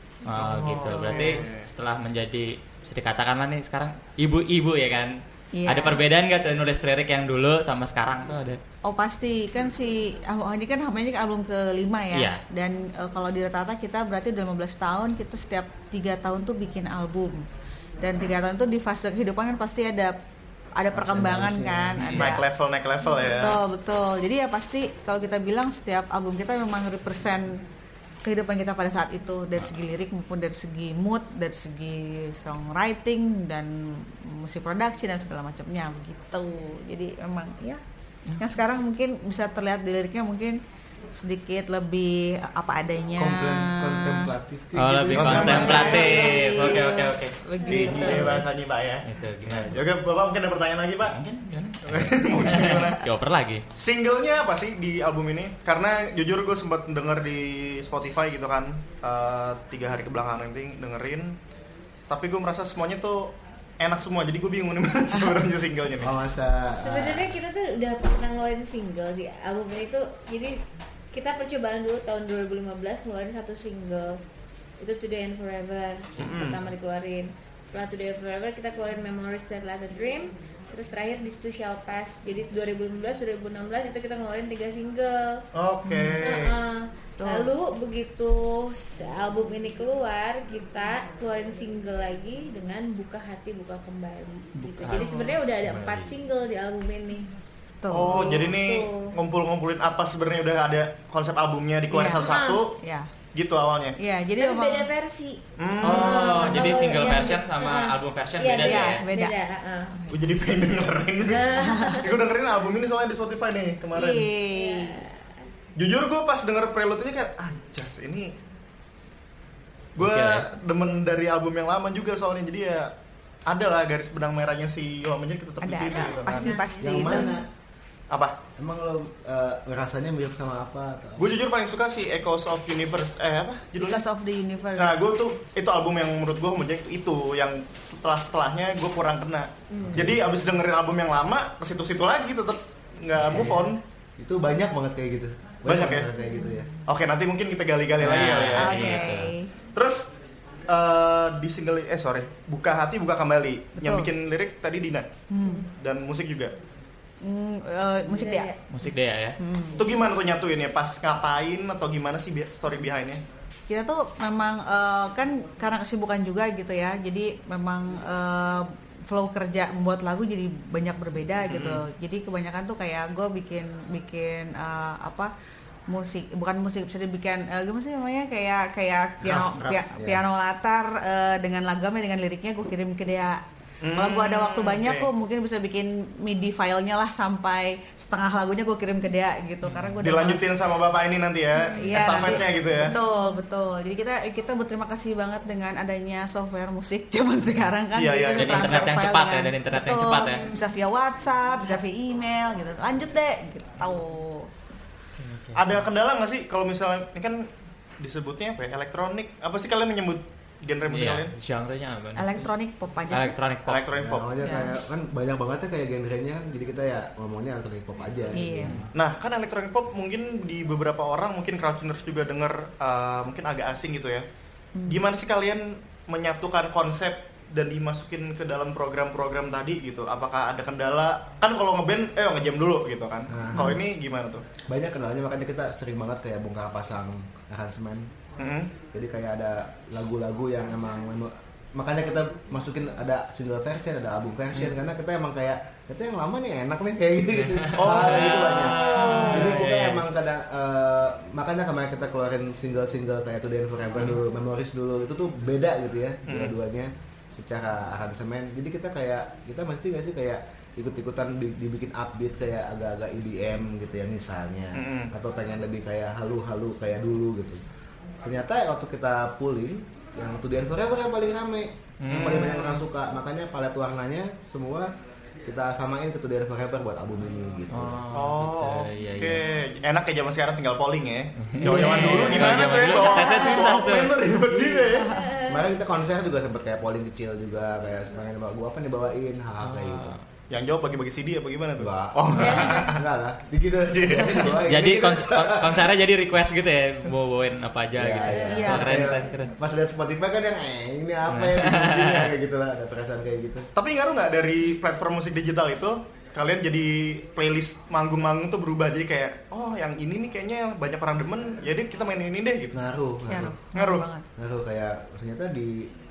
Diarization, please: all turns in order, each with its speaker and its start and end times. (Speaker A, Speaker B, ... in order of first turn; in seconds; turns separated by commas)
Speaker A: 0.2-8.6, Speaker B: 0.3-1.7, Speaker C: 5.5-6.0, Speaker C: 8.8-17.4, Speaker A: 12.1-12.4, Speaker C: 18.0-20.2, Speaker C: 20.8-22.4, Speaker D: 20.9-22.1, Speaker A: 22.0-22.4, Speaker B: 22.2-23.6, Speaker C: 23.3-27.6, Speaker C: 28.2-37.8, Speaker C: 38.4-40.6, Speaker C: 41.1-44.3, Speaker D: 43.1-46.2, Speaker A: 44.7-47.4, Speaker B: 45.1-46.3, Speaker C: 45.2-48.4, Speaker E: 47.6-48.3, Speaker B: 47.6-51.2, Speaker A: 49.0-49.9, Speaker A: 51.0-53.6, Speaker B: 51.8-53.1, Speaker B: 53.7-61.4, Speaker B: 62.1-66.1, Speaker D: 66.0-67.3, Speaker E: 66.7-70.6, Speaker E: 71.1-74.1, Speaker E: 74.8-85.4, Speaker B: 76.2-76.6, Speaker B: 85.5-86.5, Speaker C: 85.8-86.2, Speaker E: 86.2-97.3, Speaker C: 87.2-87.5, Speaker A: 94.6-96.1, Speaker C: 97.8-98.5, Speaker B: 97.9-102.8, Speaker E: 98.1-99.2, Speaker C: 101.9-103.1, Speaker E: 102.1-102.6, Speaker B: 103.3-104.0, Speaker C: 104.0-104.9, Speaker E: 104.4-110.0, Speaker B: 105.6-106.8, Speaker A: 105.8-109.0, Speaker C: 108.6-109.3, Speaker C: 109.9-110.3, Speaker B: 110.1-114.3, Speaker E: 111.3-112.2, Speaker C: 111.6-112.0, Speaker C: 113.9-115.0, Speaker E: 114.5-115.2, Speaker B: 115.8-118.3, Speaker B: 120.0-122.9, Speaker A: 120.0-120.4, Speaker B: 123.5-126.5, Speaker C: 125.6-127.4, Speaker E: 125.9-127.3, Speaker D: 126.8-127.5, Speaker B: 128.1-128.3, Speaker D: 128.6-131.4, Speaker B: 131.2-134.0, Speaker C: 133.8-135.0, Speaker B: 134.8-143.8, Speaker D: 139.8-140.2, Speaker D: 143.2-146.7, Speaker B: 145.6-146.1, Speaker C: 146.2-146.6, Speaker B: 146.9-149.0, Speaker A: 148.0-149.3, Speaker C: 148.6-149.5, Speaker B: 149.7-150.1, Speaker B: 150.7-155.1, Speaker C: 153.8-154.1, Speaker C: 155.3-155.7, Speaker B: 155.7-156.5, Speaker C: 157.2-158.5, Speaker E: 158.1-158.6, Speaker A: 158.7-159.4, Speaker C: 159.4-159.8, Speaker B: 159.8-163.2, Speaker C: 163.7-175.3, Speaker B: 171.4-171.8, Speaker C: 175.9-183.4, Speaker D: 179.2-180.2, Speaker B: 183.8-185.1, Speaker C: 183.9-190.4, Speaker A: 189.6-190.0, Speaker B: 190.0-192.9, Speaker C: 191.6-204.5, Speaker A: 191.8-192.5, Speaker B: 197.9-198.9, Speaker A: 198.3-200.5, Speaker A: 205.2-205.8, Speaker B: 205.5-207.5, Speaker B: 208.0-211.3, Speaker A: 210.9-212.5, Speaker C: 212.2-213.4, Speaker A: 213.1-214.0, Speaker B: 213.7-214.4, Speaker D: 213.9-218.9, Speaker C: 214.4-214.7, Speaker C: 218.3-218.8, Speaker B: 218.9-224.2, Speaker C: 224.7-225.0, Speaker B: 224.9-234.4, Speaker D: 233.3-233.8, Speaker D: 234.6-238.1, Speaker B: 238.4-238.7, Speaker D: 238.9-267.6, Speaker A: 247.4-250.0, Speaker B: 247.8-249.7, Speaker B: 256.3-256.6, Speaker B: 264.7-265.1, Speaker D: 268.2-274.9, Speaker A: 272.0-272.7, Speaker B: 272.1-272.8, Speaker D: 275.4-278.1, Speaker A: 277.7-279.4, Speaker B: 278.1-285.2, Speaker A: 281.4-284.8, Speaker D: 281.6-282.8, Speaker E: 283.3-283.8, Speaker E: 285.1-285.7, Speaker D: 285.4-290.2, Speaker A: 289.6-290.2, Speaker B: 290.5-293.0, Speaker D: 291.8-295.9, Speaker E: 292.3-293.0, Speaker B: 293.9-294.6, Speaker A: 294.6-299.5, Speaker D: 297.9-303.7, Speaker E: 298.2-298.7, Speaker C: 298.5-299.0, Speaker A: 301.3-302.3, Speaker B: 303.7-312.8, Speaker D: 312.7-313.6, Speaker C: 313.3-314.2, Speaker B: 313.7-314.1, Speaker D: 314.4-315.9